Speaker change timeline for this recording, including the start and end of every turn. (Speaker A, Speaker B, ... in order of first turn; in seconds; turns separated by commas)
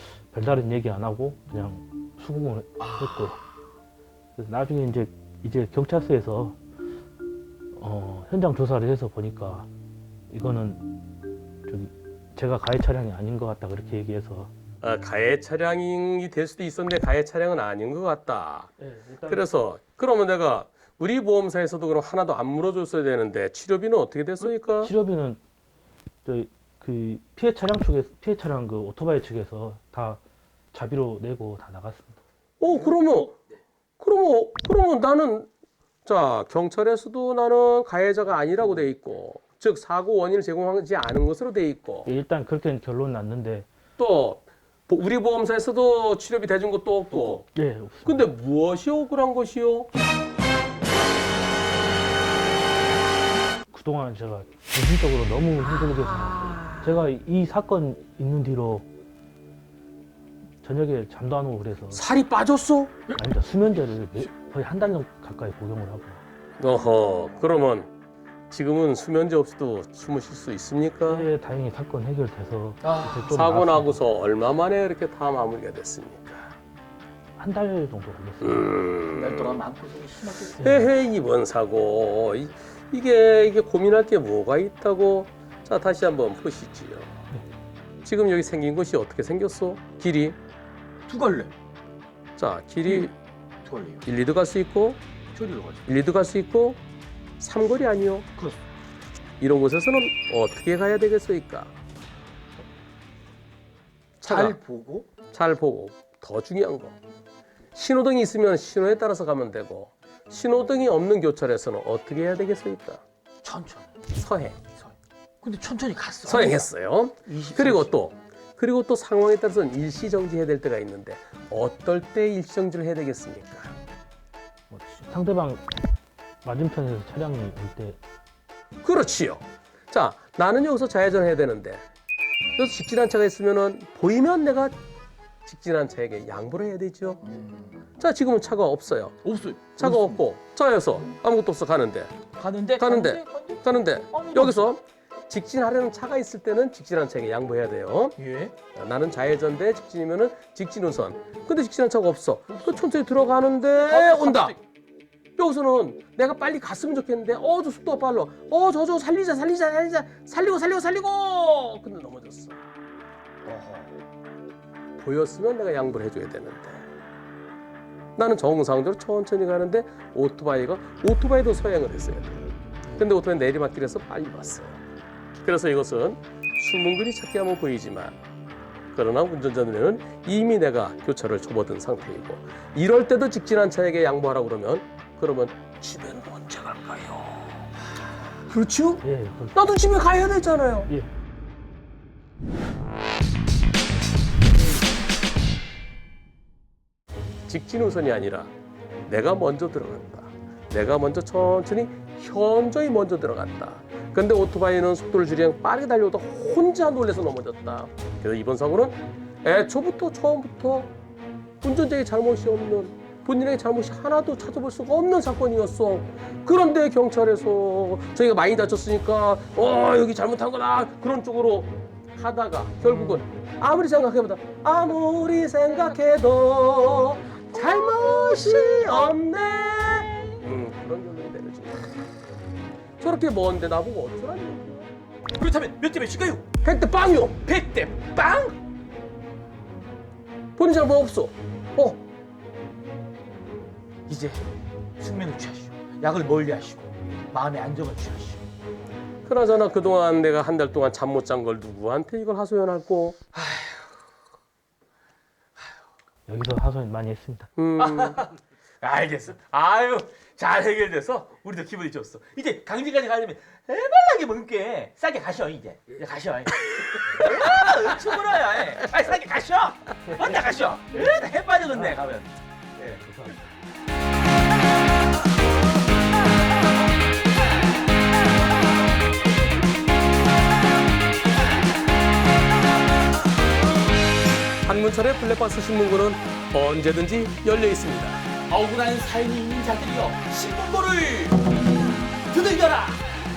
Speaker A: 0.3-3.4, Speaker B: 2.9-3.3, Speaker A: 4.4-6.6, Speaker A: 7.8-9.7, Speaker A: 10.3-11.0, Speaker A: 11.7-14.5, Speaker C: 14.8-18.7, Speaker A: 18.8-19.5, Speaker C: 19.3-24.9, Speaker A: 24.4-25.4, Speaker A: 26.2-30.2, Speaker A: 30.7-32.2, Speaker C: 32.6-33.4, Speaker C: 34.0-35.5, Speaker C: 36.1-42.1, Speaker A: 42.0-43.7, Speaker C: 44.0-47.5, Speaker A: 47.3-48.2, Speaker C: 48.0-49.9, Speaker A: 53.7-58.9, Speaker C: 56.1-57.0, Speaker A: 60.6-62.0, Speaker C: 61.9-62.9, Speaker A: 63.1-66.2, Speaker C: 66.6-67.9, Speaker C: 68.5-71.3, Speaker A: 71.0-74.0, Speaker B: 72.8-73.4, Speaker C: 73.3-76.6, Speaker A: 77.4-78.8, Speaker C: 78.5-79.6, Speaker B: 79.2-80.7, Speaker C: 80.6-87.2, Speaker A: 80.6-80.9, Speaker C: 88.0-90.4, Speaker B: 91.1-91.5, Speaker C: 92.4-93.1, Speaker B: 92.8-93.1, Speaker B: 93.7-94.0, Speaker C: 94.0-95.0, Speaker B: 95.3-95.9, Speaker C: 95.9-96.8, Speaker C: 97.4-98.3, Speaker C: 99.4-101.7, Speaker C: 104.2-104.6, Speaker B: 104.2-105.1, Speaker C: 105.3-107.0, Speaker C: 107.7-113.0, Speaker B: 113.4-114.0, Speaker C: 114.1-114.6, Speaker B: 114.8-116.7, Speaker C: 116.3-123.8, Speaker B: 117.3-118.0, Speaker A: 124.7-125.7, Speaker A: 126.4-128.0, Speaker C: 128.8-131.8, Speaker C: 132.6-134.8, Speaker C: 135.5-137.2, Speaker B: 137.2-137.8, Speaker C: 138.0-139.2, Speaker B: 139.2-140.2, Speaker C: 139.8-142.1, Speaker B: 142.4-144.7, Speaker C: 142.8-148.2, Speaker B: 148.2-148.5, Speaker C: 148.8-154.5, Speaker B: 152.5-152.9, Speaker B: 153.8-154.6, Speaker C: 155.4-162.6, Speaker B: 163.5-164.0, Speaker C: 165.0-166.9, Speaker C: 168.2-174.8, Speaker C: 175.4-178.2, Speaker C: 178.9-187.7, Speaker C: 188.5-190.9, Speaker A: 189.0-189.6, Speaker C: 197.5-198.5, Speaker C: 199.1-210.9, Speaker C: 211.6-232.1, Speaker B: 222.8-223.2, Speaker B: 227.6-229.0, Speaker C: 233.0-234.9, Speaker B: 235.4-236.5, Speaker C: 236.6-237.4, Speaker B: 237.4-238.6, Speaker C: 240.6-242.0, Speaker B: 244.1-244.4, Speaker B: 245.0-248.5, Speaker C: 249.3-253.2, Speaker B: 253.3-253.9, Speaker A: 256.3-257.5, Speaker C: 257.6-258.3, Speaker B: 257.8-273.0, Speaker A: 273.0-273.4, Speaker C: 284.6-288.2, Speaker B: 288.5-291.5, Speaker B: 292.3-293.1